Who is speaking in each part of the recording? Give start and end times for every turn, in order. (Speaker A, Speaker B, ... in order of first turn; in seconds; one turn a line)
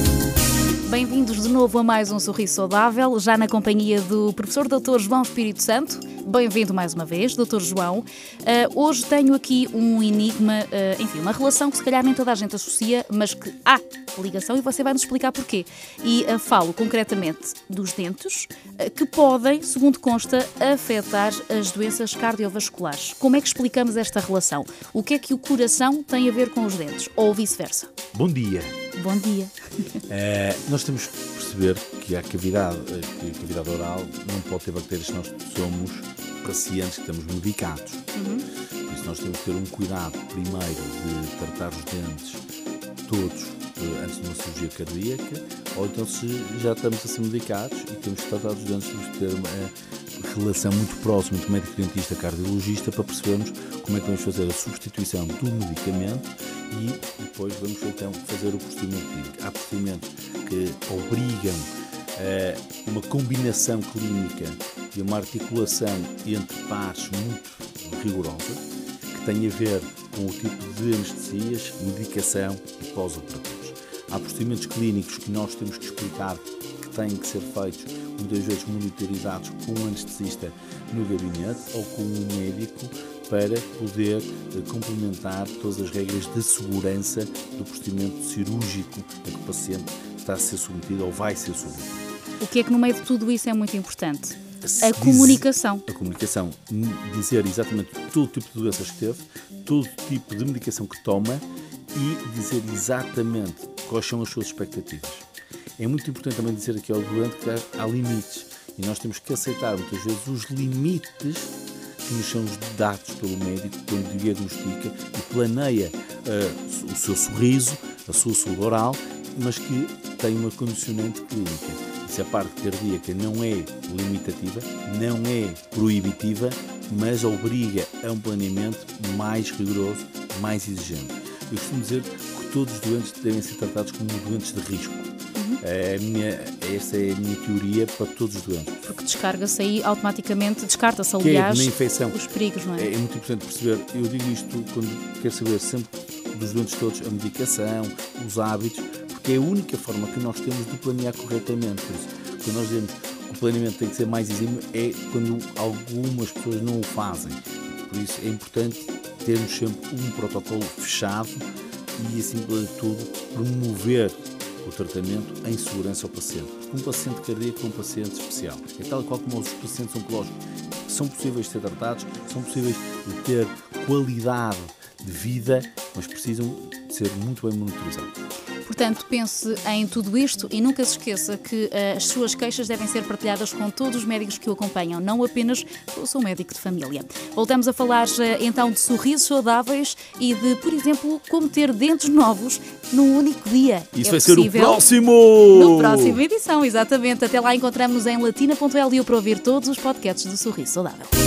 Speaker A: 0.9-27.9
Speaker B: 28.1-28.8
Speaker A: 28.9-29.6
Speaker B: 30.1-38.1
Speaker A: 38.1-38.5
Speaker B: 38.9-42.4
Speaker B: 43.1-92.1
Speaker A: 92.4-95.8
Speaker B: 94.6-105.2
Speaker B: 105.8-111.5
Speaker B: 112.0-138.8
Speaker A: 135.3-135.6
Speaker A: 138.8-142.9
Speaker B: 141.2-142.2
Speaker B: 142.8-161.4
Speaker B: 161.9-178.1
Speaker A: 178.7-194.8
Speaker B: 193.9-196.2
Speaker A: 195.5-201.1